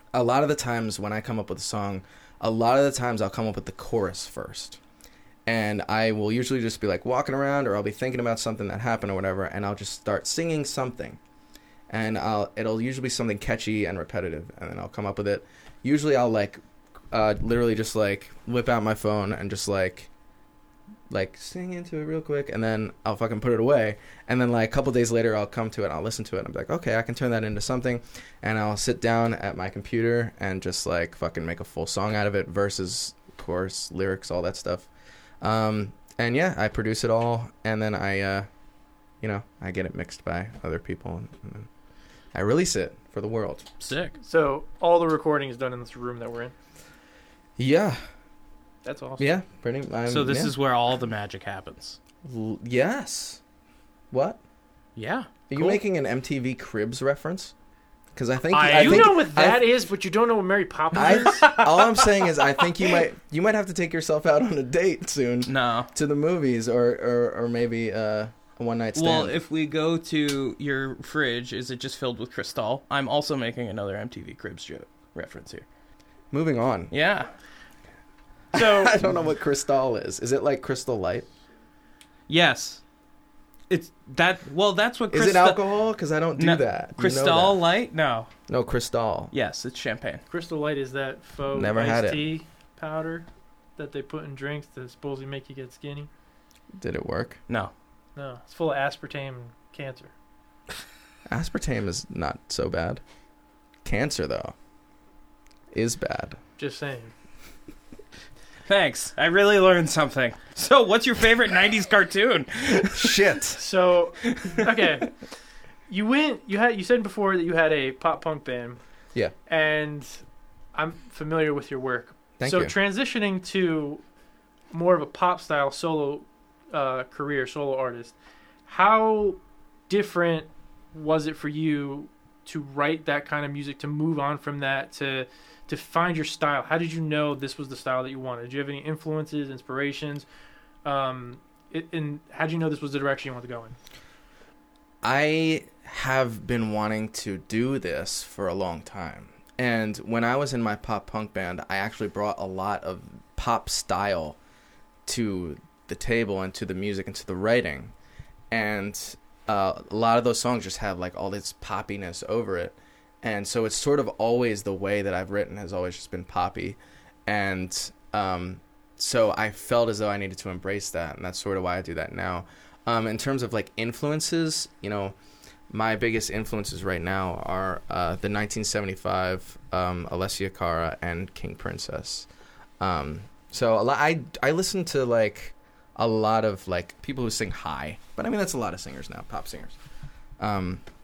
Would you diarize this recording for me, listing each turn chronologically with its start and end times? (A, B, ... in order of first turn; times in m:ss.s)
0:00.1-0:04.8 A
0:05.5-0:11.2 A
0:11.9-0:16.6 A
0:17.1-0:20.1 A
0:21.1-0:34.9 A
0:35.4-0:38.5 A
0:39.2-0:41.7 A
0:42.3-0:43.7 A
0:43.8-0:44.2 B
0:44.2-0:46.5 C
0:47.6-0:48.0 A
0:48.8-0:49.3 C
0:49.2-0:50.5 A
0:50.1-0:52.0 B
0:52.2-0:53.4 A
0:54.1-0:54.4 A
0:55.0-0:55.8 B
0:55.5-0:57.5 A
0:58.2-0:59.7 A
0:58.5-0:59.2 B
0:58.5-1:02.5 C
1:00.9-1:09.4 A
1:05.5-1:05.9 B
1:09.0-1:15.7 B
1:16.3-1:16.9 A
1:16.9-1:17.3 B
1:18.5-1:19.0 C
1:18.7-1:21.3 A
1:22.3-1:22.8 B
1:23.7-1:25.6 B
1:25.1-1:27.6 A
1:26.4-1:28.3 B
1:28.5-1:29.3 A
1:29.3-1:30.2 B
1:30.3-1:36.1 C
1:31.5-1:32.3 A
1:36.7-1:37.4 A
1:38.2-1:40.1 C
1:41.3-1:43.0 A
1:43.8-1:44.6 A
1:45.7-1:46.4 A
1:46.6-1:47.1 C
1:48.7-1:53.2 B
1:52.9-1:53.6 A
1:53.6-1:55.1 C
1:55.9-1:58.8 C
1:59.5-2:00.2 C
2:00.8-2:04.0 C
2:02.4-2:02.7 A
2:04.7-2:08.2 C
2:08.7-2:20.2 C
2:20.8-2:23.8 C
2:25.0-2:34.4 A
2:35.1-2:37.9 A
2:38.5-2:55.2 A
2:55.7-3:02.3 A
3:02.8-3:09.8 A
3:10.4-3:10.8 A